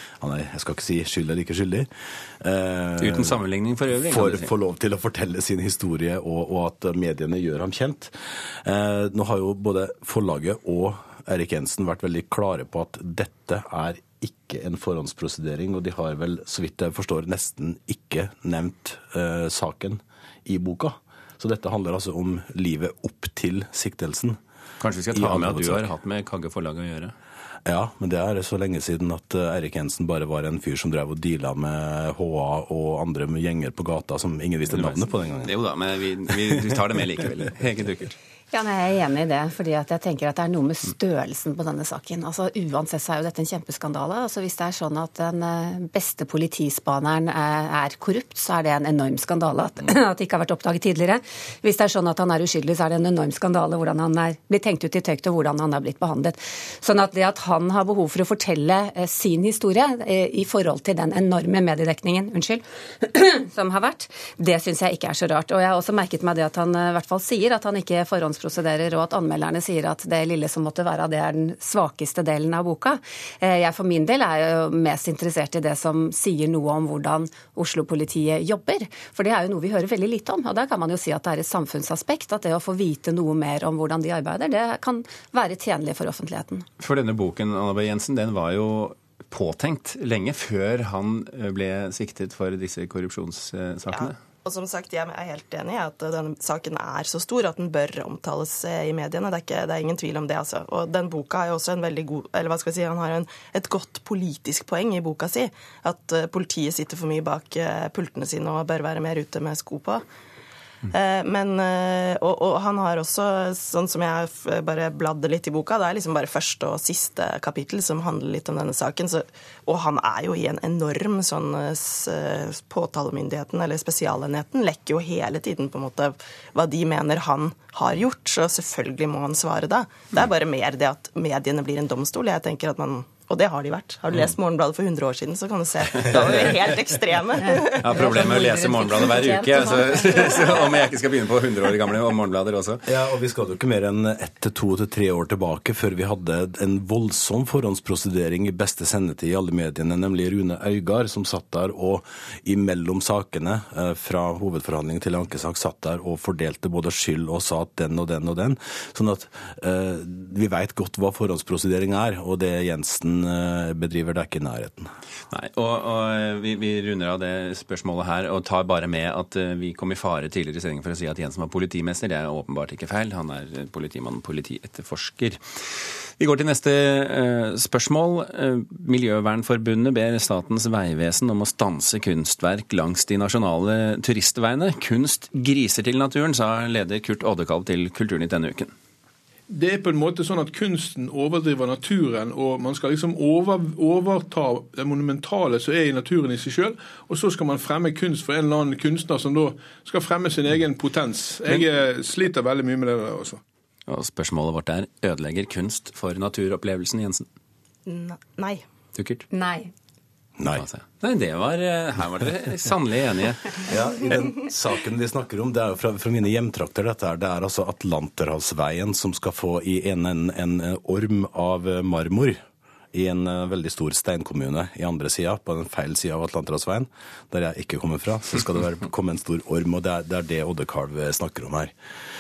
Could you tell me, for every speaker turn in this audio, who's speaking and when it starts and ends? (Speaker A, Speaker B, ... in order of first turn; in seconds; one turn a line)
Speaker A: 0.2-1.9
Speaker A: 2.4-3.4
Speaker B: 3.0-4.5
Speaker A: 3.9-24.4
Speaker B: 24.8-27.1
Speaker A: 25.1-25.9
Speaker A: 27.6-35.5
Speaker B: 34.7-38.2
Speaker C: 38.5-86.7
Speaker B: 86.8-94.2
Speaker D: 93.9-110.0
Speaker D: 110.9-137.9
Speaker C: 137.5-140.6
Speaker B: 137.8-142.9
Speaker A: 142.9-164.9
Speaker B: 165.3-188.7
Speaker E: 189.5-203.4
Speaker B: 203.9-207.3
Speaker D: 207.9-208.6
Speaker B: 209.0-209.2
Speaker C: 209.3-209.7
Speaker A: 210.4-210.7
Speaker B: 210.5-213.6
Speaker A: 213.7-222.4
Speaker A: 222.9-231.7